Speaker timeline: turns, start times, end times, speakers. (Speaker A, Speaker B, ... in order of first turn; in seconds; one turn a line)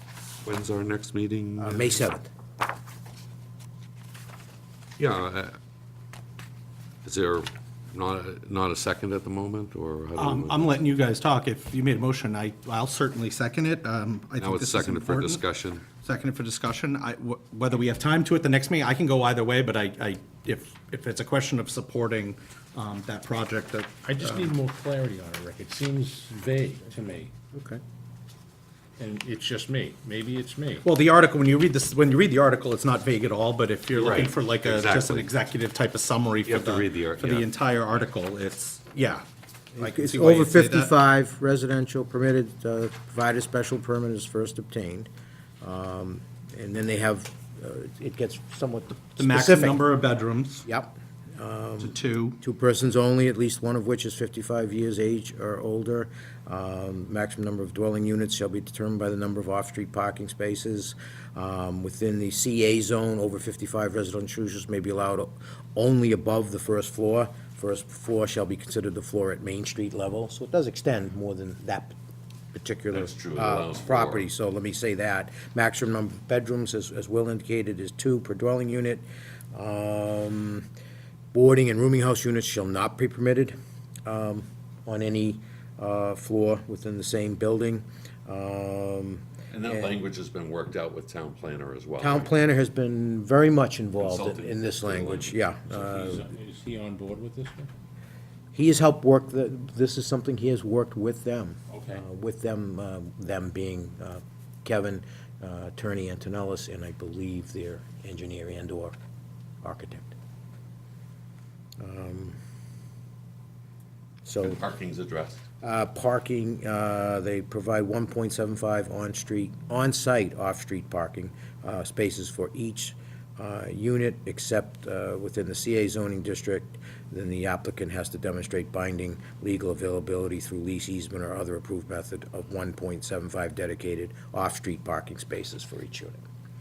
Speaker A: 0.4-2.1
Speaker B: 1.6-2.3
Speaker A: 5.0-5.6
Speaker A: 7.0-10.8
Speaker C: 10.2-15.4
Speaker A: 14.4-15.9
Speaker C: 16.0-24.5
Speaker D: 24.0-27.4
Speaker C: 27.5-27.8
Speaker D: 29.0-30.9
Speaker C: 30.8-39.2
Speaker A: 33.9-35.3
Speaker A: 36.5-37.5
Speaker C: 39.8-40.9
Speaker B: 39.8-45.1
Speaker B: 45.6-49.9
Speaker C: 49.2-50.7
Speaker B: 50.7-72.0
Speaker C: 51.8-52.4
Speaker B: 72.5-80.7
Speaker A: 72.9-74.3
Speaker B: 81.3-90.0
Speaker A: 89.5-92.3
Speaker B: 92.0-96.3
Speaker A: 94.0-95.4
Speaker D: 95.7-97.7
Speaker B: 98.5-109.0
Speaker D: 101.7-102.0
Speaker B: 109.6-110.1
Speaker B: 111.8-112.4
Speaker B: 114.2-114.6
Speaker A: 114.4-115.5
Speaker B: 115.6-136.2